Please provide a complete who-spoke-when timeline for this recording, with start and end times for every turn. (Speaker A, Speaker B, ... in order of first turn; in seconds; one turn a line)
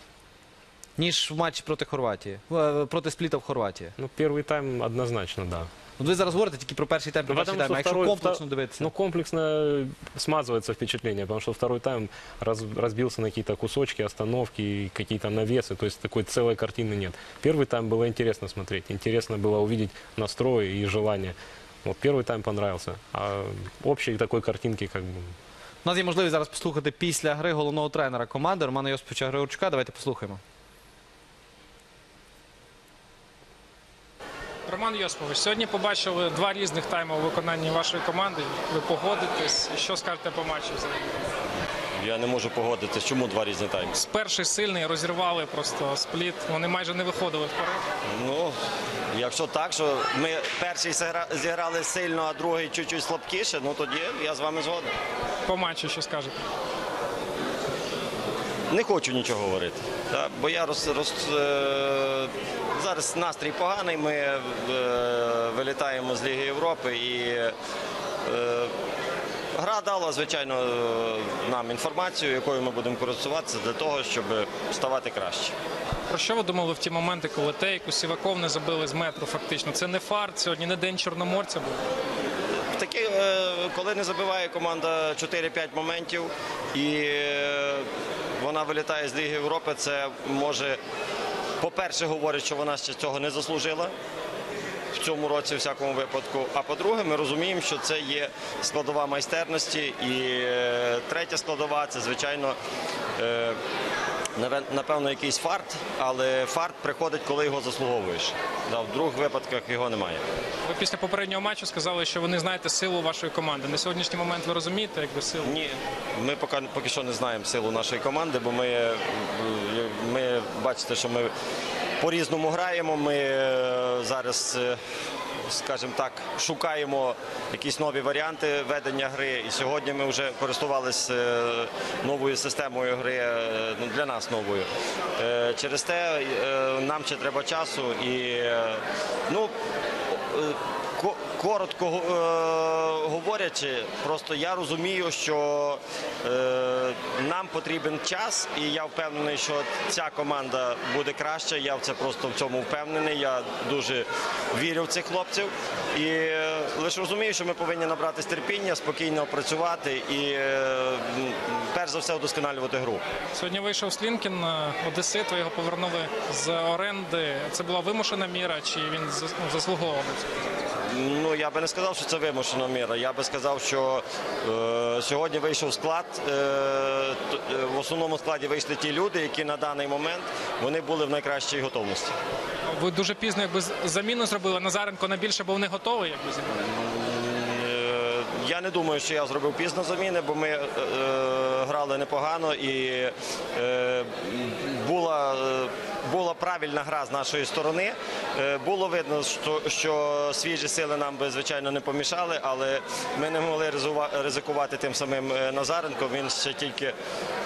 Speaker A: 1.0-3.9
Speaker B: 4.0-5.7
Speaker A: 6.0-8.9
Speaker B: 7.3-25.4
Speaker A: 25.8-30.4
Speaker C: 34.7-41.4
Speaker D: 42.0-43.9
Speaker C: 43.9-47.9
Speaker D: 48.1-48.5
Speaker D: 49.1-54.9
Speaker C: 55.5-56.4
Speaker D: 58.7-67.5
Speaker D: 68.2-68.7
Speaker D: 69.5-75.5
Speaker C: 76.1-81.8
Speaker D: 82.5-90.8
Speaker D: 91.6-93.9
Speaker D: 94.9-102.6
Speaker D: 103.2-103.6
Speaker D: 104.3-110.2
Speaker C: 110.6-115.6
Speaker D: 115.4-121.3
Speaker D: 122.0-124.8
Speaker D: 125.4-139.5
Speaker D: 140.1-163.0
Speaker C: 163.3-170.3
Speaker D: 170.8-182.1
Speaker C: 182.7-186.5
Speaker D: 186.5-206.9